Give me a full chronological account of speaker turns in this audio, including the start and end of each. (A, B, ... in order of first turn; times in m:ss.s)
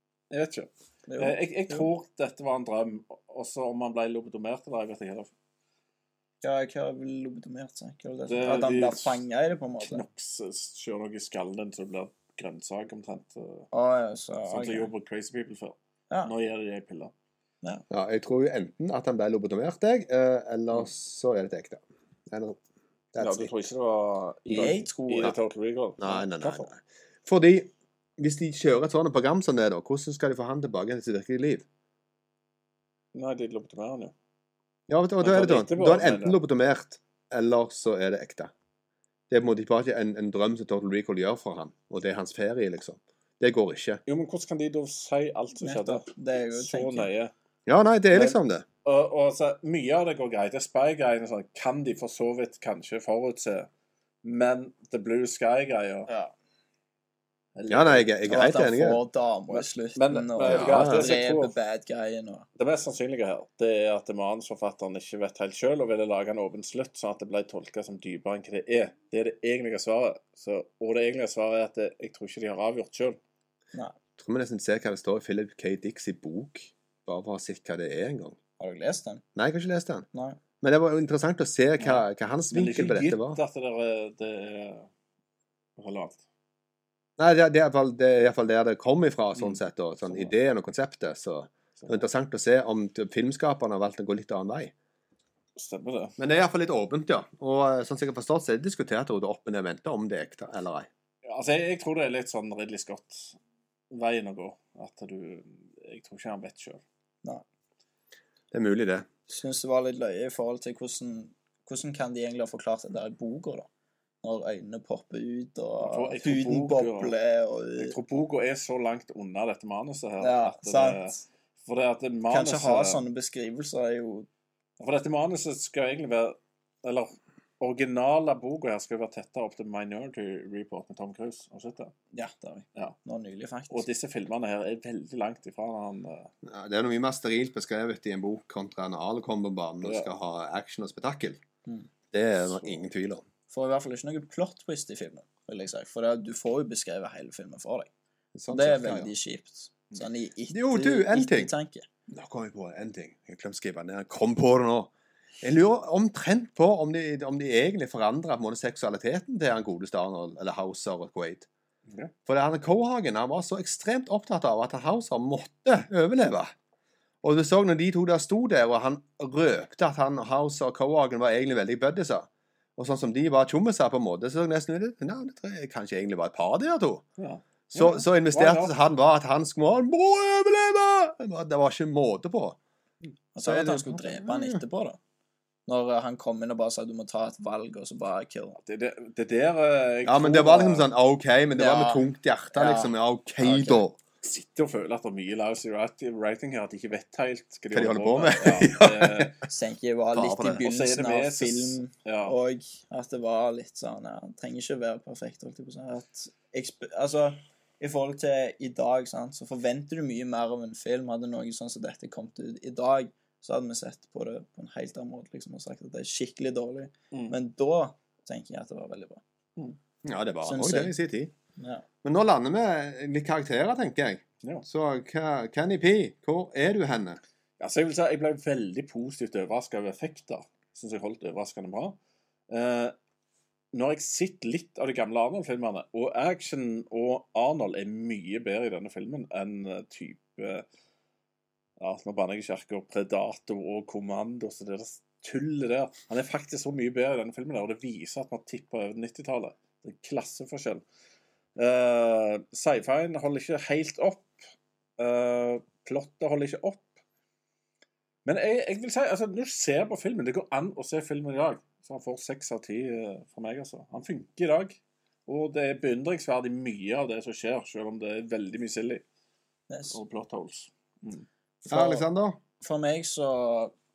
0:00.3-0:05.3 A
0:01.1-0:01.9 B
0:06.4-0:10.0 B
0:08.3-0:09.2 A
0:09.8-0:13.7 A
0:13.7-0:14.9 B
0:14.5-0:17.1 A
0:17.9-0:22.6 C
0:23.1-0:23.5 C
0:23.2-0:26.7 A
0:24.5-0:25.4 C
0:24.5-0:25.3 B
0:26.0-0:31.7 C
0:33.1-0:34.1 A
0:34.9-0:38.5 C
0:35.2-0:36.4 A
0:39.3-0:44.0 C
0:44.1-0:47.3 A
0:45.6-0:47.1 B
0:47.7-0:48.6 C
0:48.1-0:53.7 A
0:54.2-0:56.1 A
0:56.1-0:56.3 B
0:57.6-0:58.1 A
0:57.7-0:59.0 C
0:58.3-1:02.5 B
0:59.5-1:01.5 A
1:00.4-1:01.1 C
1:02.6-1:13.2 A
1:14.2-1:18.4 C
1:18.6-1:19.2 B
1:19.4-1:20.1 C
1:20.1-1:20.4 B
1:20.6-1:23.4 C
1:21.8-1:24.9 A
1:25.8-1:26.2 A
1:27.2-1:34.7 C
1:29.4-1:30.3 A
1:31.8-1:32.0 A
1:35.6-1:36.2 A
1:36.2-1:40.9 C
1:41.3-1:43.4 A
1:43.9-1:46.8 A
1:48.5-1:49.1 C
1:49.3-1:53.7 B
1:54.2-1:58.0 B
1:55.8-1:57.1 A
1:57.8-2:03.0 A
2:00.2-2:01.2 B
2:02.3-2:04.3 B
2:04.8-2:11.9 A
2:12.1-2:13.9 B
2:13.7-2:16.3 A
2:16.4-2:21.4 C
2:19.8-2:20.1 A
2:22.1-2:23.2 C
2:23.5-2:27.9 B
2:28.3-2:29.1 C
2:28.5-2:31.9 B
2:30.5-2:31.5 C
2:32.1-2:41.5 C
2:42.3-2:46.5 C
2:47.2-2:57.0 C
2:57.2-2:58.8 A
2:57.7-3:02.6 C
3:03.4-3:05.0 B
3:03.4-3:04.6 C
3:05.7-3:08.6 B
3:08.6-3:10.9 A
3:10.0-3:14.0 C
3:11.5-3:13.8 B
3:14.2-3:19.4 A
3:17.7-3:19.3 C
3:19.5-3:39.2 B
3:20.1-3:20.6 C
3:20.6-3:22.4 A
3:40.0-3:41.3 C
3:40.4-3:41.0 B
3:41.6-3:41.8 B
3:42.0-3:47.2 C
3:47.6-3:52.0 A
3:52.5-3:52.9 A
3:53.7-4:00.7 A
4:01.8-4:10.8 A
4:11.6-4:14.4 A
4:15.0-4:16.9 A
4:18.2-4:29.0 A
4:29.7-4:30.0 B
4:29.9-4:31.3 A
4:31.6-4:32.0 B
4:31.7-4:32.4 C
4:32.6-4:33.7 B